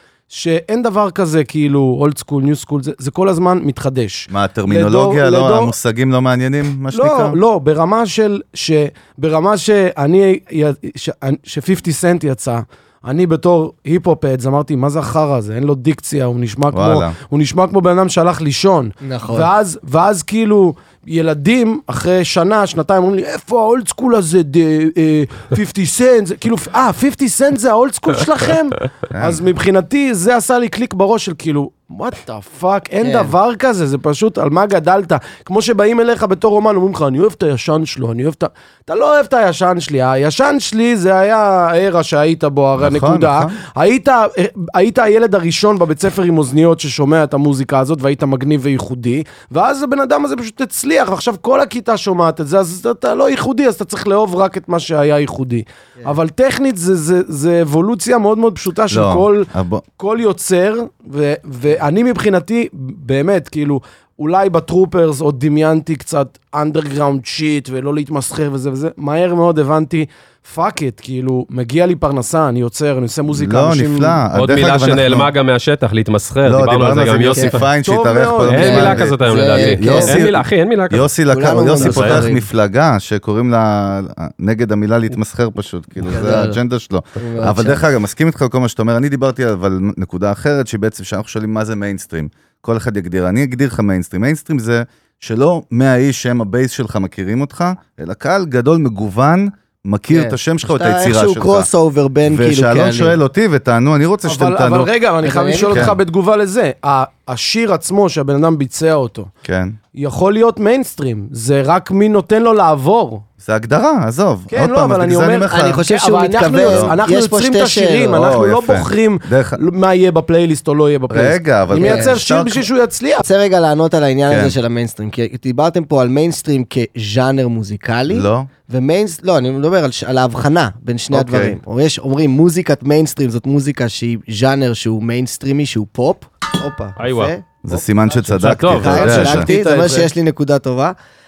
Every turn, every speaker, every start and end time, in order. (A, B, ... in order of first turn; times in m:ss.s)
0:00.3-0:05.7 A
0:04.3-0:07.4 B
0:06.9-1:14.2 A
0:16.7-0:17.2 B
0:19.0-0:19.5 C
0:29.1-0:29.4 B
0:33.0-0:33.3 C
0:42.8-0:43.6 B
0:58.9-0:59.8 B
1:13.3-1:15.3 B
1:14.3-1:17.6 D
1:16.4-1:41.7 B
1:17.3-1:17.6 C
1:17.8-1:18.9 A
1:18.4-1:21.1 D
1:18.6-1:20.2 C
1:21.3-1:22.4 C
1:21.8-1:22.2 D
1:26.0-1:26.6 C
1:27.2-1:27.8 C
1:40.1-1:43.2 C
1:42.3-1:44.9 B
1:44.2-1:49.3 A
1:45.2-1:45.9 C
1:45.7-1:46.0 B
1:49.4-1:49.8 B
1:49.9-1:53.2 A
1:53.4-1:55.8 B
1:54.5-2:03.2 A
1:55.5-1:58.2 C
1:56.6-1:56.9 B
1:58.1-1:59.6 B
2:01.1-2:02.7 B
2:01.7-2:02.1 C
2:03.2-2:17.4 C
2:04.3-2:04.6 B
2:08.1-2:08.5 B
2:11.1-2:11.6 B
2:17.0-2:17.3 D
2:17.6-2:19.5 B
2:18.1-2:20.1 A
2:18.3-2:20.9 C
2:18.4-2:19.5 D